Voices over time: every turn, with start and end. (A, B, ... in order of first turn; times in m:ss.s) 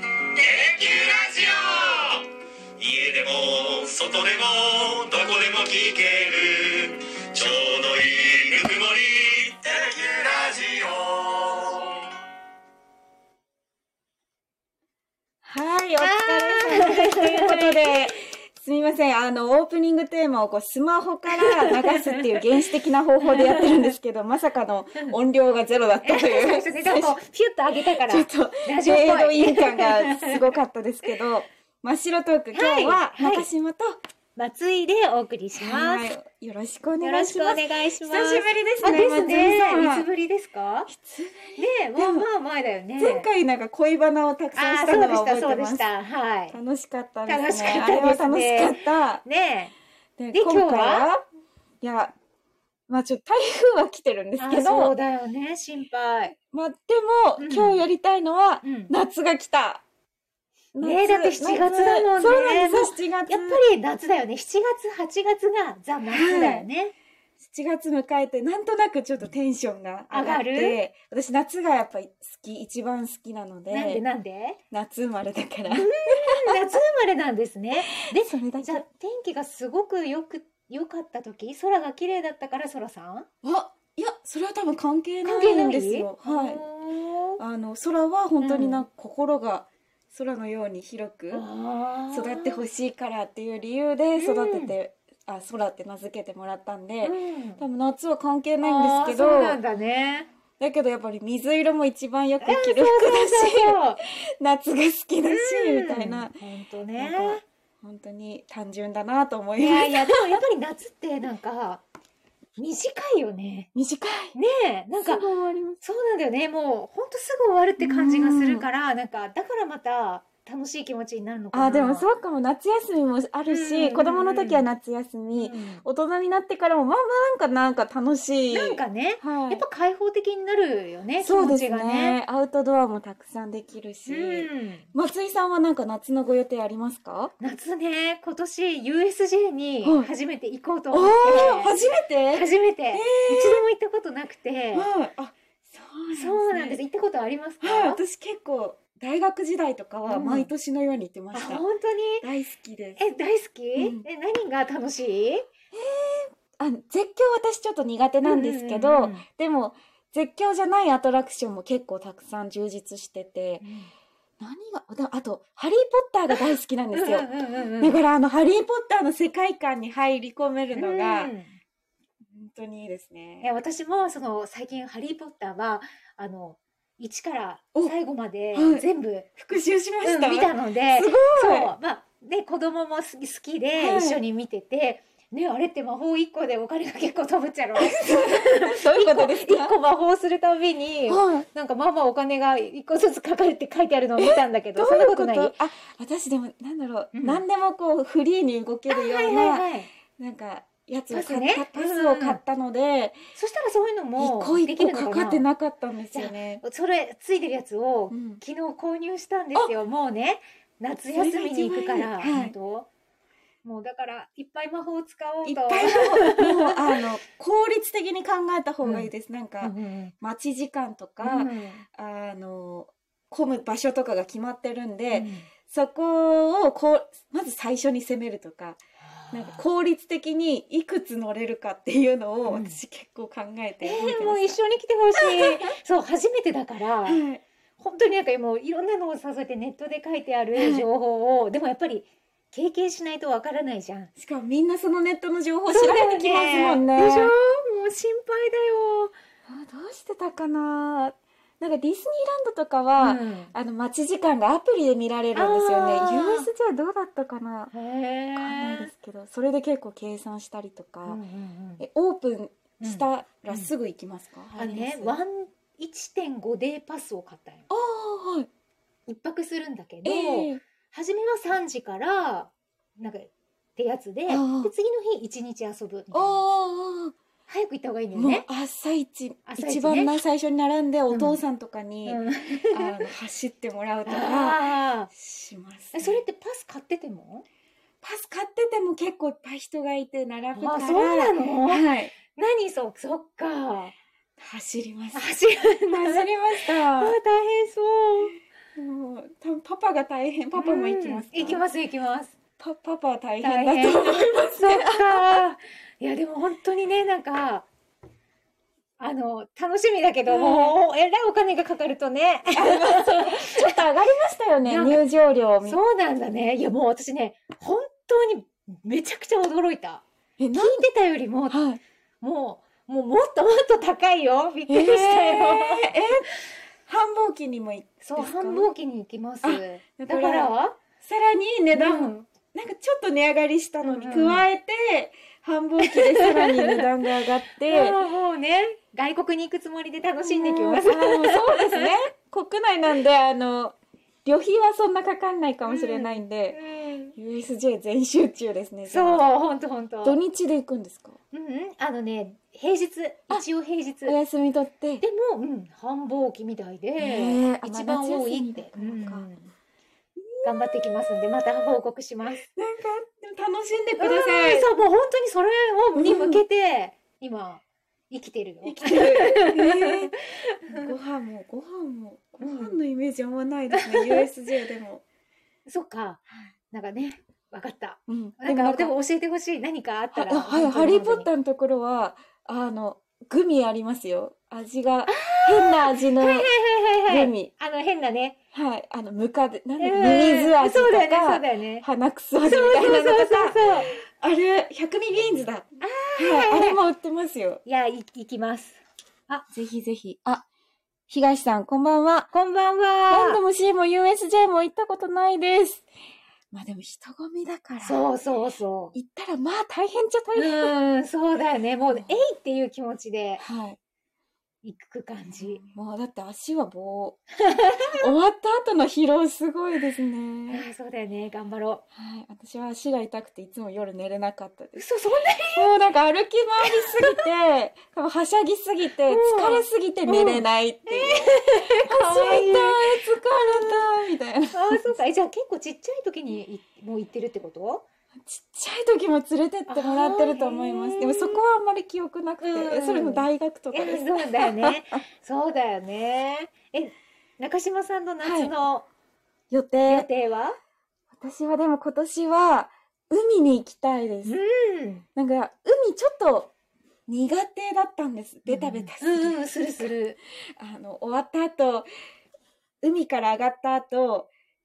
0:00.3-0:12.0 A
0:15.4-0:27.2 B
0:16.0-0:18.0 C
0:21.3-0:22.6 C
0:23.2-0:23.9 C
0:26.0-0:30.5 C
0:27.8-0:34.0 B
0:32.5-0:33.5 C
0:34.4-0:36.0 C
0:35.6-0:40.1 B
0:37.0-0:40.9 C
0:40.9-0:42.3 B
0:41.6-0:43.3 C
0:43.0-0:45.9 B
0:44.6-0:46.6 C
0:46.5-0:49.2 B
0:47.2-0:49.7 C
0:50.2-0:51.2 B
0:50.3-0:51.1 C
0:51.8-0:52.1 B
0:52.9-0:54.9 B
0:54.4-0:56.3 C
0:56.5-0:59.8 B
0:57.4-0:57.8 C
0:58.6-0:58.9 C
1:00.7-1:03.6 B
1:00.8-1:06.9 C
1:06.1-1:06.7 B
1:07.4-1:14.0 B
1:10.1-1:10.8 C
1:13.7-1:14.6 C
1:14.7-1:16.7 B
1:15.7-1:23.3 C
1:17.8-1:18.8 B
1:23.4-1:26.6 B
1:25.2-1:27.4 C
1:27.4-1:31.4 B
1:28.4-1:28.8 C
1:31.3-1:32.6 C
1:32.1-1:39.6 B
1:34.2-1:34.8 C
1:37.0-1:37.6 C
1:38.6-1:40.3 C
1:40.6-1:46.4 B
1:42.4-1:44.0 C
1:45.3-1:47.4 C
1:47.0-1:50.2 B
1:49.6-1:51.8 C
1:52.6-1:53.7 C
1:53.7-1:54.3 B
1:54.3-1:55.2 C
1:55.0-1:55.8 B
1:55.8-2:02.1 C
1:57.8-1:58.7 B
2:01.5-2:09.6 B
2:03.5-2:04.6 C
2:05.3-2:05.8 C
2:08.5-2:12.2 C
2:11.2-2:17.3 B
2:14.1-2:14.9 C
2:17.4-2:21.8 C
2:19.8-2:20.1 B
2:20.9-2:23.6 B
2:22.3-2:24.9 C
2:24.7-2:26.8 B
2:26.1-2:28.0 C
2:27.6-2:31.6 B
2:30.1-2:30.5 C
2:31.3-2:32.2 C
2:32.2-2:33.0 B
2:33.0-2:35.5 C
2:33.8-2:34.0 B
2:35.7-2:43.6 B
2:38.2-2:39.2 C
2:43.6-2:43.9 C
2:44.4-2:51.3 B
2:46.3-2:48.0 C
2:50.7-2:51.6 C
2:52.3-2:53.5 B
2:53.4-2:59.3 C
2:58.6-2:58.9 B
2:59.4-3:01.7 B
3:00.0-3:15.6 C
3:03.8-3:04.2 B
3:07.8-3:09.8 B
3:11.1-3:11.5 B
3:14.2-3:23.2 B
3:17.1-3:17.4 C
3:18.9-3:19.9 C
3:21.1-3:22.4 C
3:23.3-3:25.4 C
3:24.2-3:26.6 B
3:26.1-3:32.9 C
3:28.1-3:28.4 B
3:31.1-3:32.6 B
3:33.6-3:37.0 C
3:35.4-3:48.8 B
3:38.8-3:39.1 C
3:39.6-3:40.1 C
3:41.2-3:41.8 C
3:45.1-3:45.5 C
3:49.0-3:49.6 C
3:49.3-3:54.6 B
3:52.5-3:52.8 C
3:53.8-3:57.2 C
3:55.2-3:55.6 B
3:57.1-3:57.4 B
3:57.8-4:04.1 C
4:00.6-4:00.9 B
4:04.2-4:07.3 B
4:05.7-4:09.2 C
4:09.5-4:17.7 B
4:13.0-4:13.5 C
4:15.3-4:16.5 C
4:17.7-4:18.9 C
4:18.4-4:21.2 B
4:21.1-4:21.8 C
4:21.8-4:25.1 B
4:22.8-4:23.7 C
4:24.5-4:27.7 C
4:27.7-4:28.5 B
4:29.1-4:36.4 C
4:30.0-4:30.6 B
4:34.3-4:34.7 B
4:36.1-4:37.1 B
4:37.5-4:38.5 C
4:38.1-4:46.2 B
4:39.5-4:40.2 C
4:41.1-4:41.4 C
4:42.1-4:43.0 C
4:44.1-4:45.1 C
4:45.9-4:47.4 C
4:48.0-4:52.1 B
4:50.5-4:53.9 C
4:54.4-4:55.3 B
4:55.1-4:58.4 C
4:55.9-4:57.2 B
4:58.8-5:01.6 B
5:00.5-5:02.3 C
5:02.6-5:05.4 B
5:03.4-5:07.7 C
5:09.0-5:13.8 C
5:10.3-5:10.8 B
5:12.5-5:15.8 B
5:14.6-5:15.0 C
5:15.6-5:21.6 C
5:20.4-5:20.8 B
5:21.5-5:21.8 B
5:22.2-5:25.9 C
5:24.7-5:26.3 B
5:26.9-5:28.7 B
5:28.0-5:30.8 C
5:29.4-5:38.0 B
5:31.7-5:32.3 C
5:33.8-5:34.4 C
5:35.8-5:36.8 C
5:37.6-5:42.0 C
5:40.2-5:46.6 B
5:45.6-5:47.1 C
5:47.2-5:49.2 B
5:48.9-5:50.2 C
5:50.0-5:51.2 B
5:51.3-5:54.2 C
5:54.0-5:55.0 B
5:55.0-5:59.5 C
5:57.0-5:59.3 B
6:00.2-6:01.8 B
6:00.4-6:02.4 C
6:02.4-6:04.7 B
6:04.0-6:10.9 C
6:06.0-6:06.4 B
6:08.6-6:10.1 B
6:10.7-6:15.0 B
6:12.4-6:12.8 C
6:13.7-6:14.3 C
6:15.7-6:21.3 C
6:18.1-6:18.9 B
6:20.1-6:26.5 B
6:25.1-6:28.4 C
6:27.1-6:27.5 B
6:28.5-6:37.6 B
6:29.8-6:31.8 C
6:32.4-6:33.9 C
6:35.8-6:36.8 C
6:37.6-6:39.5 C
6:39.5-6:40.4 B
6:41.1-6:42.3 B
6:42.3-6:43.4 C
6:43.1-6:45.8 B
6:46.5-6:48.0 B
6:47.8-6:48.9 C
6:48.9-6:50.7 B
6:50.3-6:53.4 C
6:51.9-6:52.2 B
6:53.4-6:53.8 B
6:54.6-6:55.6 C
6:55.4-6:57.2 B
6:57.4-6:58.1 C
6:58.0-7:00.7 B
7:00.5-7:01.8 C
7:01.9-7:04.8 B
7:04.8-7:05.7 C
7:05.5-7:15.0 B
7:06.6-7:07.2 C
7:09.1-7:13.8 C
7:14.5-7:17.8 C
7:18.2-7:25.0 B
7:19.7-7:21.4 C
7:22.4-7:28.9 C
7:28.2-7:28.5 B
7:29.5-7:30.1 B
7:29.9-7:30.6 C
7:31.1-7:34.4 B
7:34.2-7:35.0 C
7:35.1-7:36.5 B
7:37.1-7:39.8 B
7:38.4-7:40.2 C
7:40.6-7:41.9 B
7:42.8-7:44.3 B